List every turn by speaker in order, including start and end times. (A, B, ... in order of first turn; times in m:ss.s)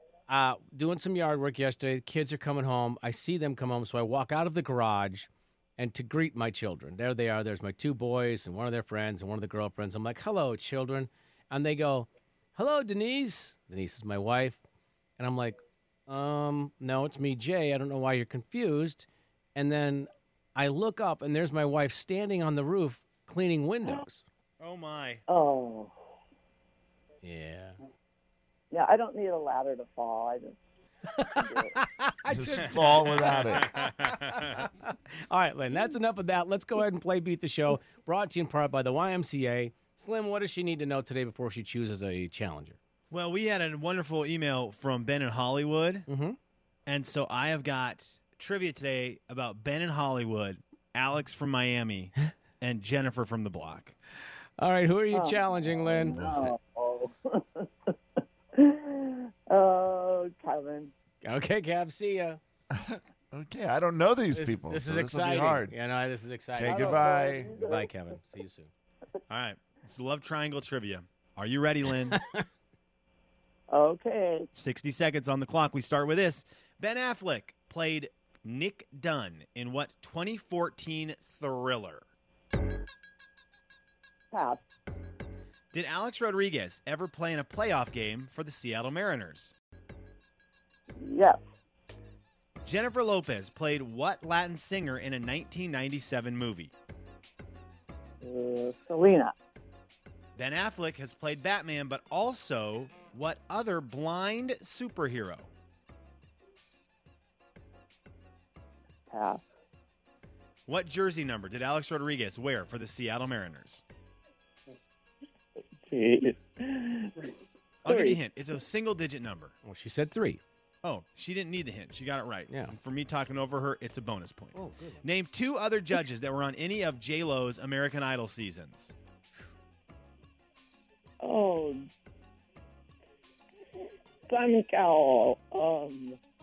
0:00.3-0:14.6 A
0:15.2-0:24.2 A
0:24.6-0:25.2 B
0:25.3-0:25.9 C
0:27.2-0:27.8 A
0:28.7-0:30.6 C
0:31.1-0:42.8 A
0:31.3-0:31.8 C
0:32.3-0:33.8 D
0:32.8-0:34.6 B
0:43.1-0:46.1 B
0:46.1-0:46.4 A
0:46.9-0:53.9 B
0:54.6-0:56.2 A
0:55.1-0:57.9 C
0:56.2-0:56.5 D
0:58.5-1:00.9 C
1:01.2-1:02.4 A
1:02.7-1:05.7 D
1:04.3-1:08.7 A
1:06.6-1:07.5 D
1:06.6-1:07.9 C
1:09.3-1:12.2 B
1:12.1-1:12.4 A
1:13.7-1:14.5 C
1:14.5-1:22.0 B
1:24.3-1:24.6 C
1:25.7-1:29.5 B
1:31.0-1:31.4 C
1:32.6-1:36.7 B
1:38.2-1:39.3 C
1:40.4-1:45.5 B
1:49.1-1:49.4 C
1:50.7-1:53.8 B
1:55.8-1:57.4 C
1:57.8-1:59.5 B
1:57.9-1:58.2 C
1:59.6-2:00.4 A
2:00.8-2:08.9 B
2:02.5-2:02.7 A
2:04.5-2:05.0 A
2:11.2-2:11.9 C
2:14.3-2:16.2 C